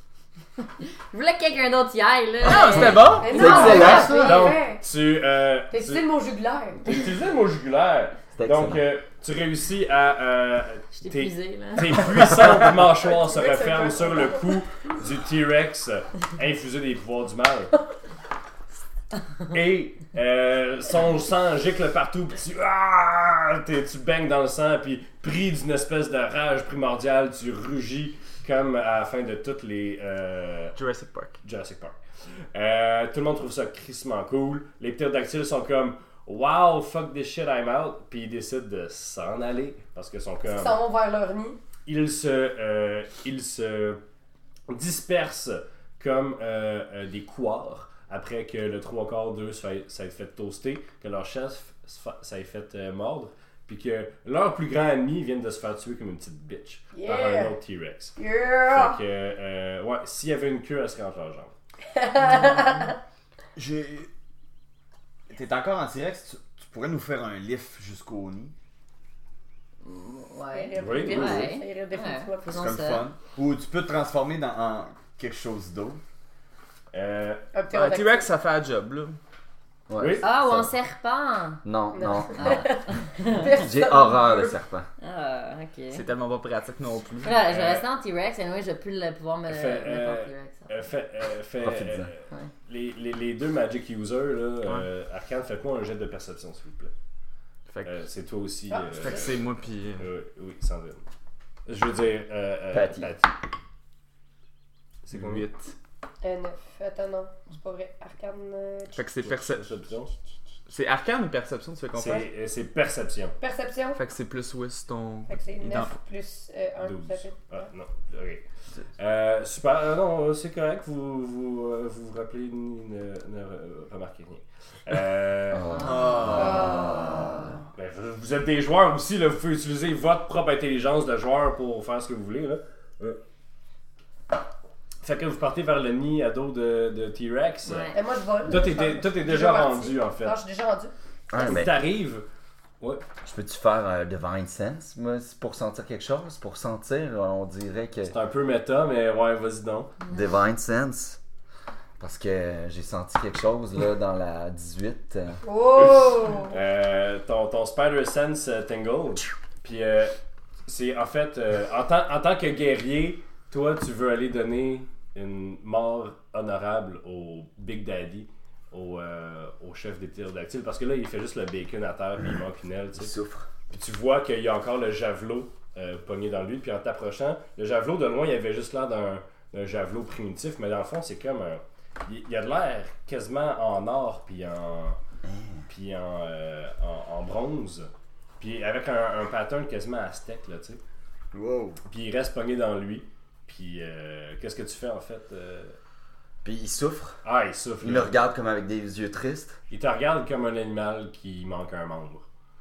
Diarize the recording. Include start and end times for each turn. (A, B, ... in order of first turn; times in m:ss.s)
0:00.6-0:04.4 A
0:02.4-0:03.3 B
0:03.2-0:04.8 C
0:03.2-0:04.3 D
0:03.4-0:04.3 E
0:03.5-0:06.0 F
0:05.7-0:07.0 C
0:06.8-0:17.7 F
0:08.3-0:08.8 D
0:10.9-0:12.4 A
0:12.8-0:14.6 C
0:19.5-0:30.8 F
0:30.8-0:31.4 B
0:31.4-0:32.0 F
0:32.5-0:40.8 F
0:40.5-0:41.6 C
0:41.8-0:44.0 F
0:44.7-0:58.2 F
0:56.9-0:57.6 C
0:58.2-0:59.0 C
0:58.7-1:01.5 F
1:01.9-1:03.0 C
1:03.6-1:04.1 E
1:05.3-1:08.5 E
1:09.8-1:13.1 A
1:10.5-1:12.7 C
1:10.8-1:11.5 F
1:12.5-1:16.0 E
1:16.9-1:17.4 F
1:17.5-1:18.3 C
1:17.7-1:19.2 B
1:19.9-1:20.7 D
1:20.0-1:20.2 F
1:20.2-1:21.6 A
1:21.6-1:22.7 D
1:21.9-1:24.5 C
1:22.3-1:23.6 A
1:23.5-1:24.9 D
1:25.0-1:26.0 A
1:25.9-1:27.3 B
1:27.2-1:30.8 A
1:27.5-1:27.8 F
1:29.5-1:36.9 F
1:31.6-1:32.1 D
1:37.7-1:37.9 B
1:37.8-1:39.4 F
1:38.7-1:39.3 C
1:39.0-1:40.1 B
1:40.0-1:41.0 F
1:41.6-1:43.3 F
1:42.7-1:43.1 D
1:45.0-1:45.5 F
1:45.1-1:45.7 B
1:46.2-1:49.0 C
1:48.9-1:49.7 B
1:49.2-1:50.1 F
1:50.7-1:52.3 B
1:51.9-1:53.4 F
1:53.4-1:54.0 C
1:54.0-1:55.9 B
1:55.3-1:57.7 C
1:56.8-1:58.4 F
1:59.0-2:06.0 F
2:05.5-2:07.5 D
2:05.8-2:06.3 A
2:05.8-2:06.7 E
2:06.3-2:07.3 C
2:07.7-2:13.2 F
2:15.0-2:17.9 F
2:17.6-2:18.0 A
2:17.9-2:20.9 C
2:18.4-2:20.4 F
2:21.3-2:21.8 D
2:21.4-2:22.3 F
2:23.2-2:28.1 D
2:28.0-2:29.9 F
2:30.0-2:30.3 A
2:30.1-2:31.2 D
2:32.0-2:35.4 D
2:35.4-2:36.5 C
2:35.8-2:53.1 F
2:53.0-2:53.5 D
2:53.7-3:05.0 F
3:05.2-3:05.6 D
3:05.7-3:10.8 F
3:11.3-3:11.8 E
3:11.9-3:15.8 F
3:16.4-3:17.2 D
3:17.2-3:18.2 F
3:17.8-3:19.6 D
3:19.7-3:22.2 F